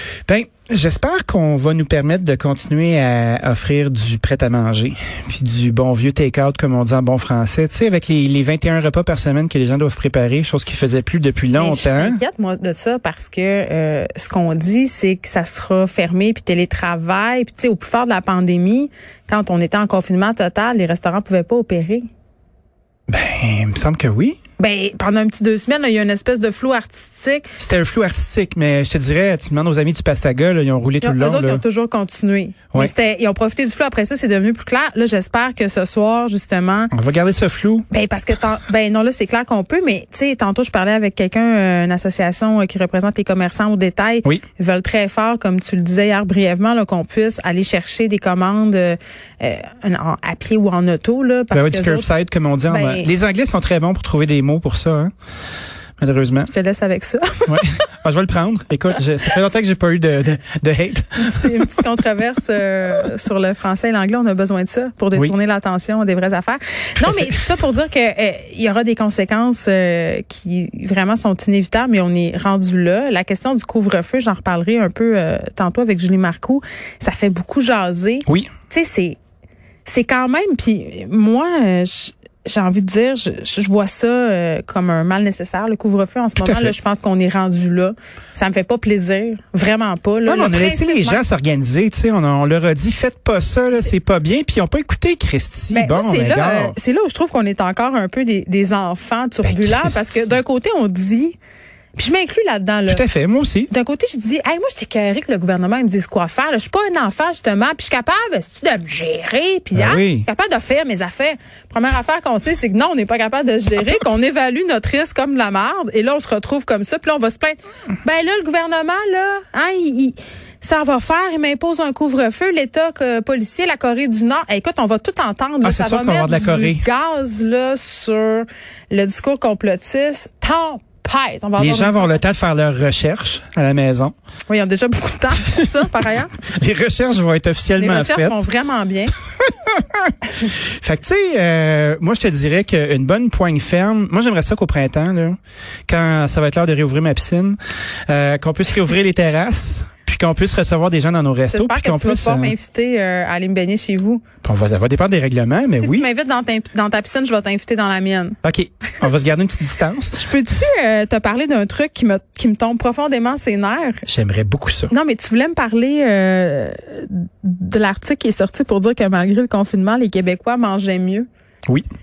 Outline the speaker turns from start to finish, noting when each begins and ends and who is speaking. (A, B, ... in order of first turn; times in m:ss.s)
0:00.3-0:12.2 A
0:11.6-0:22.0 B
0:23.1-0:24.4 A
0:24.6-0:27.4 B
0:27.6-0:31.6 A
0:31.0-0:36.9 B
0:36.9-0:37.9 A
0:37.9-0:52.1 B
0:51.5-0:55.1 A
0:52.7-0:53.1 B
0:56.0-0:56.5 A
0:56.5-0:57.6 B
0:57.5-1:01.8 A
1:01.2-1:19.2 B
1:07.0-1:07.4 A
1:18.2-1:18.5 A
1:19.8-1:31.2 B
1:26.4-1:26.7 A
1:30.2-1:36.8 A
1:35.7-1:41.4 B
1:39.4-1:40.3 A
1:42.0-1:43.0 B
1:42.9-1:43.7 A
1:43.7-2:12.2 B
1:49.7-1:50.2 A
2:05.6-2:06.8 A
2:11.6-2:14.1 A
2:14.5-2:16.3 B
2:16.4-2:18.4 A
2:17.8-2:19.1 B
2:19.4-2:25.4 A
2:25.9-2:27.6 A
2:28.1-2:32.5 A
2:31.5-2:34.2 B
2:34.4-2:36.0 A
2:35.8-2:38.4 B
2:38.4-2:40.2 A
2:40.2-2:44.0 B
2:44.0-2:44.9 A
2:44.9-2:51.3 B